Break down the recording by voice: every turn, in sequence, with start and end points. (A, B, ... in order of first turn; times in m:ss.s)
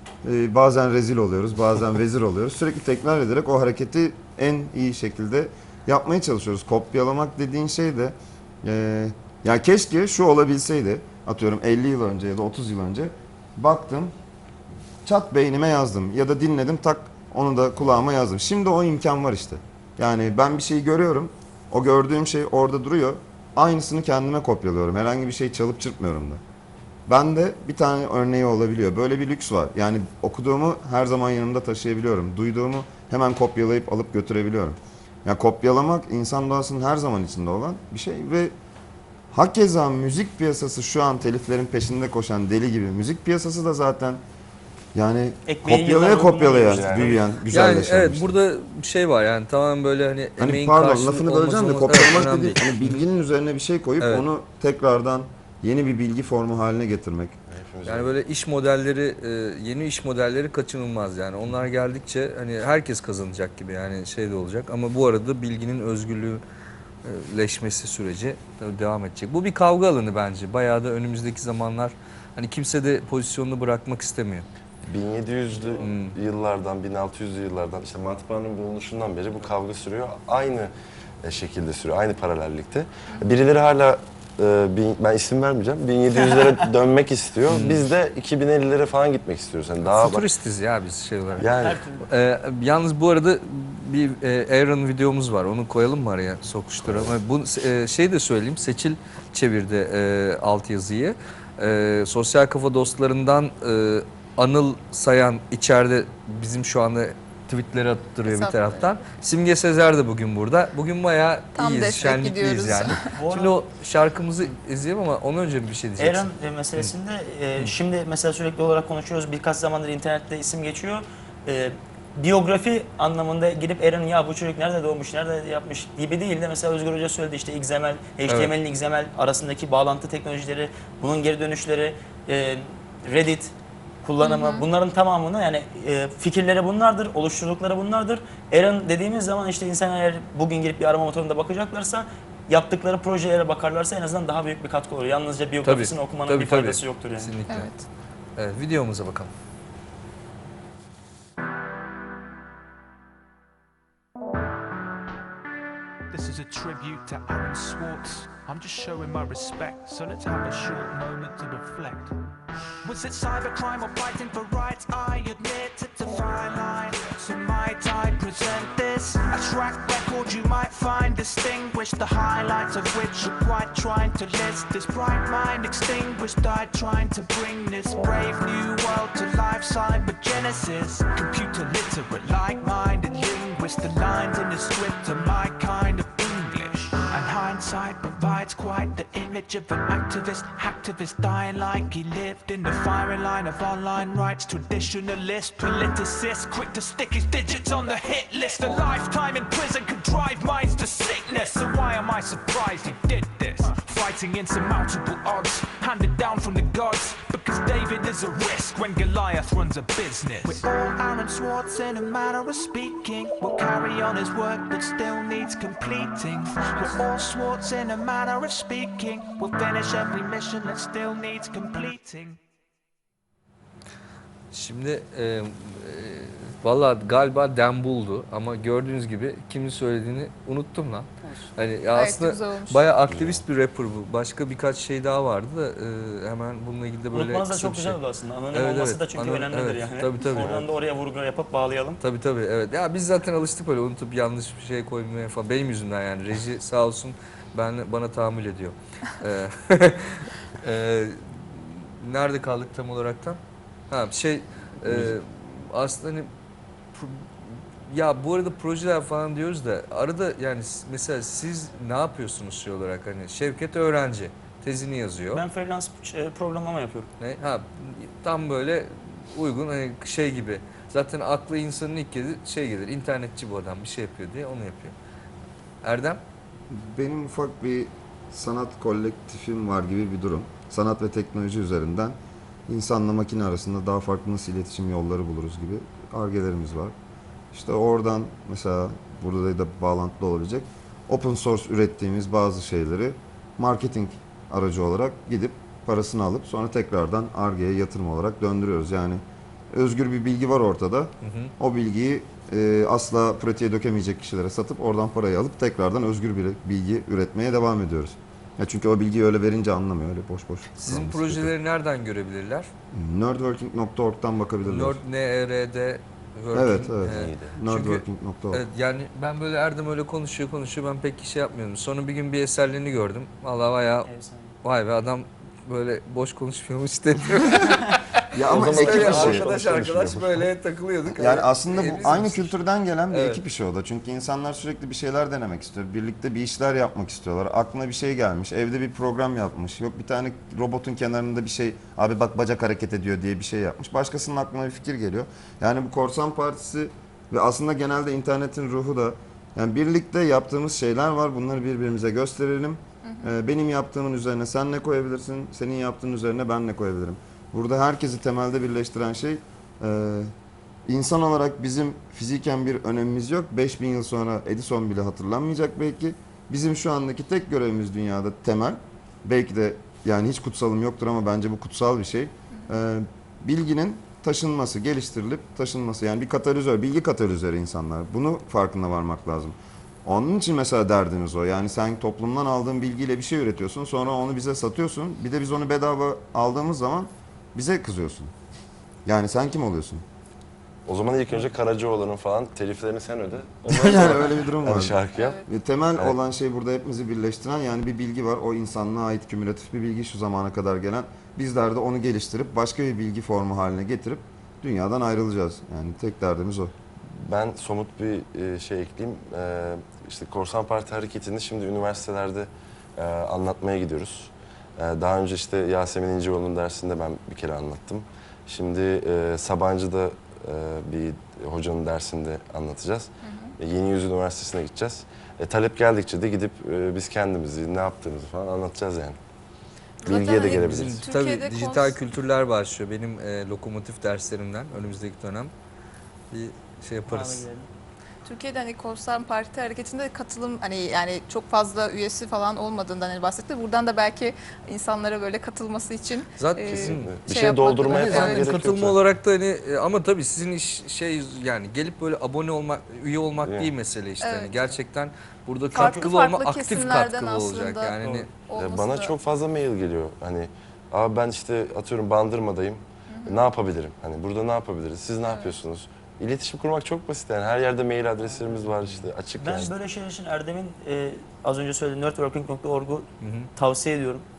0:00.2-0:14.1 A
0:15.0-0:26.4 A
0:27.1-0:38.5 A
0:39.3-0:44.2 A
0:44.9-0:48.3 A
0:45.4-0:47.2 B
0:46.7-0:47.2 C
0:47.5-0:52.9 D
0:50.4-0:57.4 A
0:57.5-0:58.1 C
0:57.8-1:06.4 D
1:07.0-1:14.4 D
1:14.8-1:20.7 C
1:15.8-1:16.2 D
1:21.2-1:30.3 C
1:27.5-1:27.8 D
1:29.8-1:31.4 D
1:31.4-1:31.8 C
1:31.4-1:32.1 B
1:32.1-1:56.9 D
1:36.8-1:37.1 C
1:48.2-1:49.0 E
1:51.5-1:53.2 E
1:53.2-1:53.6 B
1:56.0-2:13.5 B
2:14.0-2:27.3 B
2:14.2-2:14.6 E
2:25.6-2:27.7 D
2:27.5-2:27.8 E
2:28.4-2:29.3 D
2:36.1-2:42.2 F
2:42.8-3:42.4 F
3:44.5-3:58.0 D
3:51.9-3:52.8 E
3:53.1-3:53.4 C
3:57.1-4:02.0 B
3:58.5-4:00.6 D
4:00.4-4:00.7 C
4:02.0-4:16.3 D
4:14.8-4:15.1 C
4:16.9-4:25.4 D
4:25.3-4:27.1 B
4:27.2-4:34.9 D
4:35.8-4:36.2 D
4:36.7-4:42.2 A
4:42.7-4:46.9 A
4:47.5-5:11.5 A
5:01.2-5:01.5 D
5:10.8-5:12.7 D
5:12.9-5:15.0 A
5:14.6-5:24.1 D
5:16.5-5:18.6 A
5:17.1-5:17.6 C
5:24.1-5:24.6 B
5:24.6-5:32.6 D
5:28.3-5:29.5 A
5:28.4-5:30.4 C
5:31.2-6:00.3 A
5:33.1-5:33.4 D
6:00.8-6:28.3 A
6:29.0-6:30.0 A
6:30.8-6:35.4 C
6:33.7-6:46.7 A
6:35.2-6:35.4 E
6:47.1-7:09.2 C
7:03.2-7:03.5 E
7:10.0-7:12.0 E
7:10.0-7:11.0 C
7:10.4-7:15.5 D
7:16.3-7:17.4 D
7:17.1-7:17.7 B
7:18.2-7:28.6 E
7:26.4-7:27.1 D
7:26.7-7:29.0 C
7:27.9-7:38.3 D
7:33.4-7:33.7 C
7:34.2-7:34.6 E
7:35.7-7:39.2 E
7:38.6-7:49.7 C
7:43.1-7:43.4 E
7:45.3-7:45.5 E
7:49.4-7:54.2 B
7:53.2-7:53.5 D